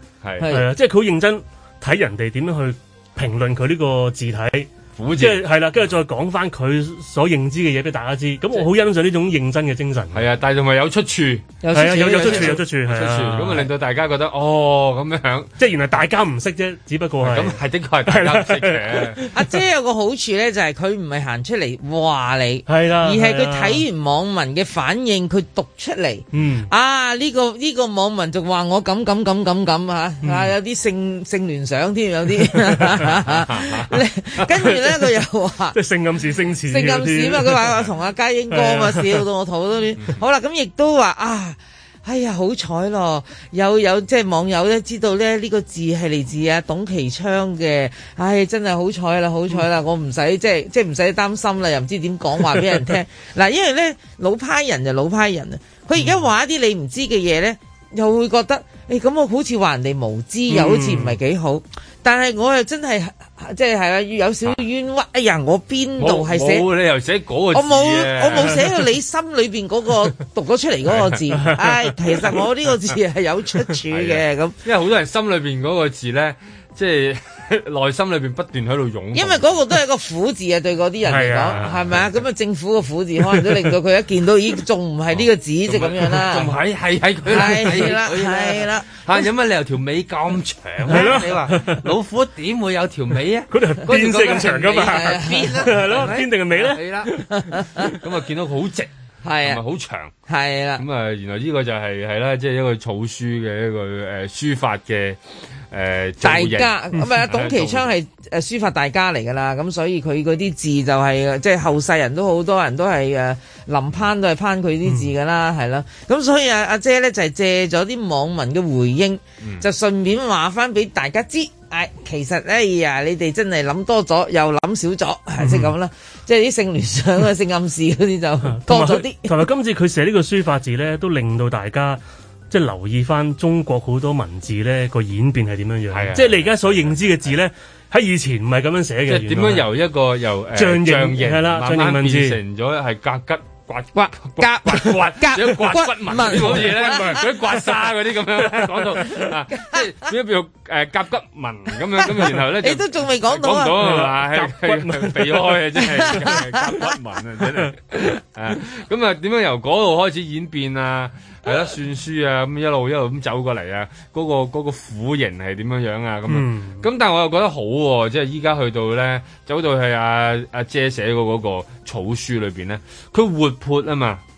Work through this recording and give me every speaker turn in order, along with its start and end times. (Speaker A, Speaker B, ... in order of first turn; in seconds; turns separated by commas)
Speaker A: 0.2-0.5, Speaker B: 0.4-0.7, Speaker C: 0.4-10.2, Speaker A: 5.0-5.4, Speaker A: 10.1-11.5, Speaker B: 11.6-12.6, Speaker C: 11.7-13.7, Speaker A: 12.1-15.5, Speaker C: 15.6-19.4, Speaker A: 17.2-19.2, Speaker B: 19.3-35.8, Speaker C: 22.7-23.8, Speaker C: 26.3-26.7, Speaker C: 30.2-30.5, Speaker A: 33.5-33.9, Speaker C: 35.7-37.6, Speaker B: 36.7-66.7, Speaker C: 38.5-39.1, Speaker C: 60.5-61.2, Speaker A: 66.0-68.7, Speaker B: 67.5-74.5, Speaker C: 71.3-71.8, Speaker A: 73.9-79.4, Speaker B: 79.1-86.5, Speaker C: 81.0-81.8, Speaker A: 85.1-97.2, Speaker B: 87.3-89.0, Speaker C: 90.8-91.8, Speaker C: 93.5-97.4, Speaker B: 94.8-96.3, Speaker B: 97.3-97.9, Speaker A: 97.9-98.9, Speaker B: 99.2-99.6, Speaker A: 99.4-100.1, Speaker B: 100.3-100.8, Speaker A: 100.8-105.2, Speaker A: 105.7-106.7, Speaker B: 106.2-129.4, Speaker A: 107.3-107.9, Speaker C: 125.4-125.7, Speaker C: 128.5-139.7, Speaker A: 135.9-137.1, Speaker A: 139.1-174.2, Speaker C: 140.5-142.4, Speaker B: 143.9-147.2, Speaker C: 146.2-147.2, Speaker C: 148.5-149.2, Speaker B: 152.6-153.8, Speaker C: 153.7-155.5, Speaker B: 156.0-156.4, Speaker C: 166.3-166.8